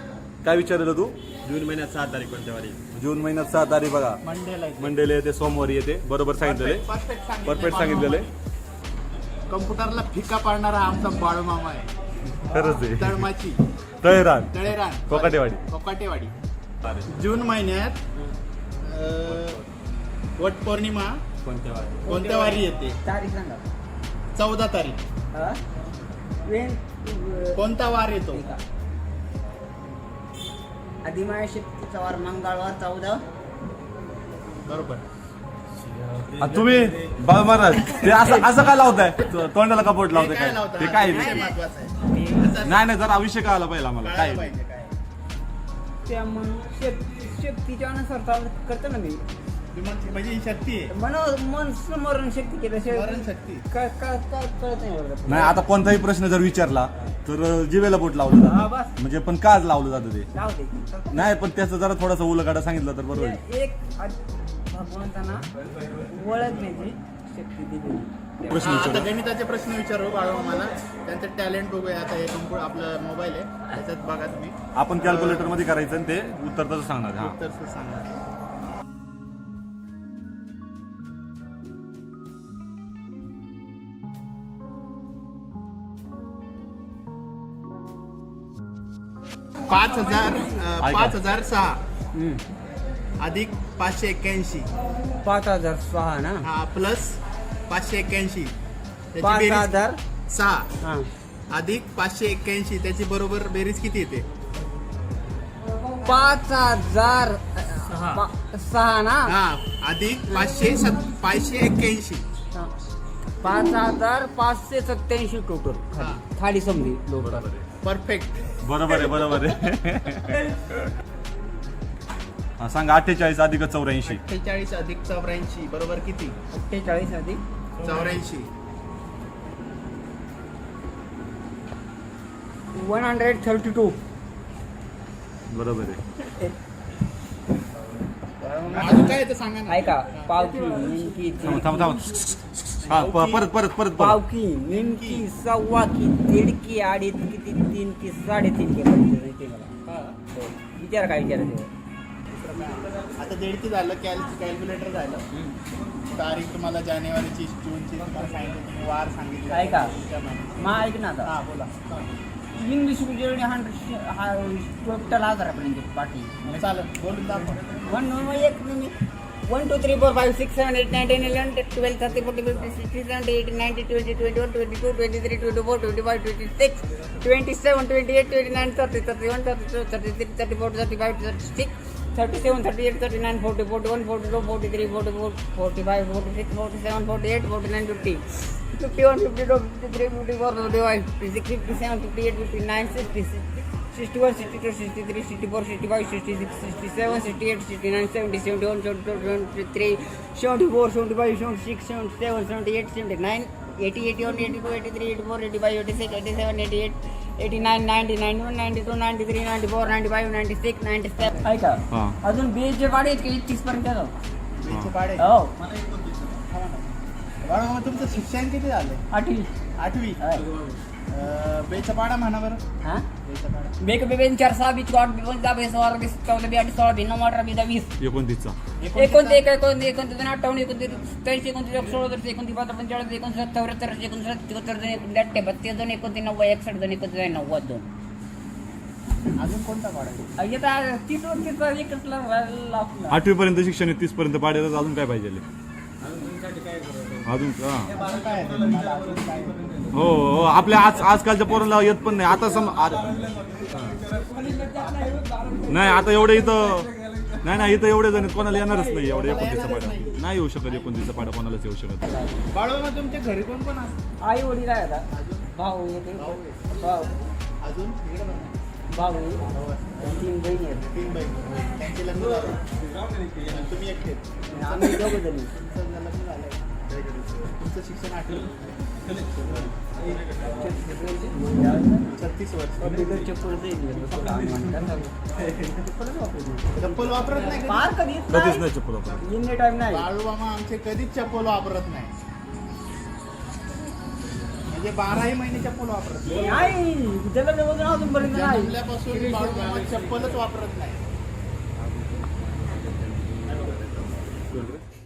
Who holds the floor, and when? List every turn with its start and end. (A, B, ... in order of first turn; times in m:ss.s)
0:00.4-0:01.2 A
0:01.4-0:02.8 B
0:02.9-0:04.2 A
0:04.2-0:05.0 C
0:04.8-0:06.8 A
0:06.4-0:08.3 C
0:07.4-0:08.3 A
0:09.5-0:11.9 C
0:12.4-0:13.2 A
0:12.8-0:13.6 C
0:14.0-0:15.6 A
0:14.5-0:16.3 C
0:17.1-0:18.0 C
0:18.8-0:19.6 C
0:20.4-0:21.2 C
0:21.4-0:22.1 B
0:22.1-0:23.0 C
0:22.1-0:23.6 D
0:24.3-0:25.0 C
0:25.3-0:25.6 D
0:26.5-0:27.7 D
0:27.6-0:28.4 C
0:28.3-0:28.6 D
0:31.0-0:33.2 D
0:34.7-0:35.0 C
0:36.4-0:41.5 A
0:40.1-0:42.8 C
0:41.0-0:41.6 D
0:42.1-0:42.6 D
0:42.6-0:44.5 A
0:44.0-0:44.9 C
0:46.1-0:49.2 D
0:49.7-0:50.9 C
0:50.9-0:55.6 D
0:52.9-0:53.6 C
0:55.3-1:00.3 A
0:58.4-0:58.9 D
1:00.3-1:01.4 D
1:01.1-1:03.4 A
1:03.1-1:05.5 D
1:06.1-1:08.7 D
1:08.5-1:09.1 A
1:08.6-1:15.5 C
1:14.8-1:17.3 A
1:17.2-1:18.1 C
1:29.7-1:31.8 C
1:30.8-1:31.2 A
1:32.1-1:32.4 D
1:33.2-1:34.7 C
1:35.2-1:36.5 D
1:36.4-1:37.2 C
1:37.7-1:38.6 C
1:39.1-1:39.7 C
1:39.2-1:40.0 D
1:40.3-1:40.7 C
1:40.8-1:41.1 D
1:41.5-1:44.2 C
1:46.0-1:49.4 D
1:49.2-1:52.2 C
1:53.4-1:57.4 D
1:56.0-1:56.2 C
1:57.2-1:57.7 A
1:57.8-1:58.4 C
1:58.6-2:00.4 A
2:02.6-2:04.2 A
2:04.0-2:06.4 C
2:06.5-2:07.4 D
2:07.8-2:08.5 C
2:12.7-2:14.0 D
2:15.5-2:16.0 A
2:18.4-2:22.2 D
2:18.7-2:20.3 C
2:21.4-2:22.2 A
2:22.8-2:23.4 C
2:22.8-2:24.2 A
2:23.9-2:29.7 D
2:24.7-2:25.2 C
2:29.9-2:30.2 C
2:30.3-2:31.7 D
2:32.3-2:35.2 C
2:36.1-2:40.7 C
2:39.5-2:39.9 D
2:40.6-2:41.3 D
2:41.2-2:42.2 C
2:42.6-2:46.6 D
2:46.5-2:47.8 C
2:47.8-2:48.9 D
2:49.4-3:34.1 D
3:31.9-3:32.2 A
3:34.6-3:35.2 C
3:35.2-3:35.8 D
3:35.8-3:39.0 C
3:39.1-3:39.5 D
3:39.8-3:40.2 C
3:40.2-3:40.5 D
3:41.1-3:42.6 C
3:43.2-3:43.8 C
3:43.8-3:47.9 D
3:48.0-3:48.6 A
3:48.8-3:49.4 C
3:48.9-3:57.9 D
3:59.4-4:00.3 C
4:00.4-4:03.2 D
4:03.1-4:05.4 A
4:06.7-4:07.1 B
4:07.2-4:08.0 A
4:07.9-4:09.9 C
4:09.9-4:14.0 A
4:15.7-4:16.9 A
4:17.4-4:22.1 A
4:19.0-4:20.2 C
4:22.1-4:22.4 D
4:22.5-4:24.0 C
4:24.2-4:27.1 D
4:25.1-4:25.5 C
4:26.2-4:26.7 C
4:27.6-4:28.6 C
4:28.9-4:29.4 D
4:29.4-4:30.2 C
4:30.0-4:30.9 D
4:30.9-4:32.7 C
4:33.4-4:39.6 C
4:34.5-4:35.5 D
4:40.4-4:42.2 D
4:42.1-4:43.0 C
4:42.8-4:48.7 D
4:46.8-4:47.9 C
4:48.3-4:49.2 A
4:49.2-4:50.0 D
4:49.9-4:52.1 C
4:54.7-4:56.8 C
4:56.3-4:58.7 D
4:58.2-5:01.0 C
5:01.8-5:04.8 B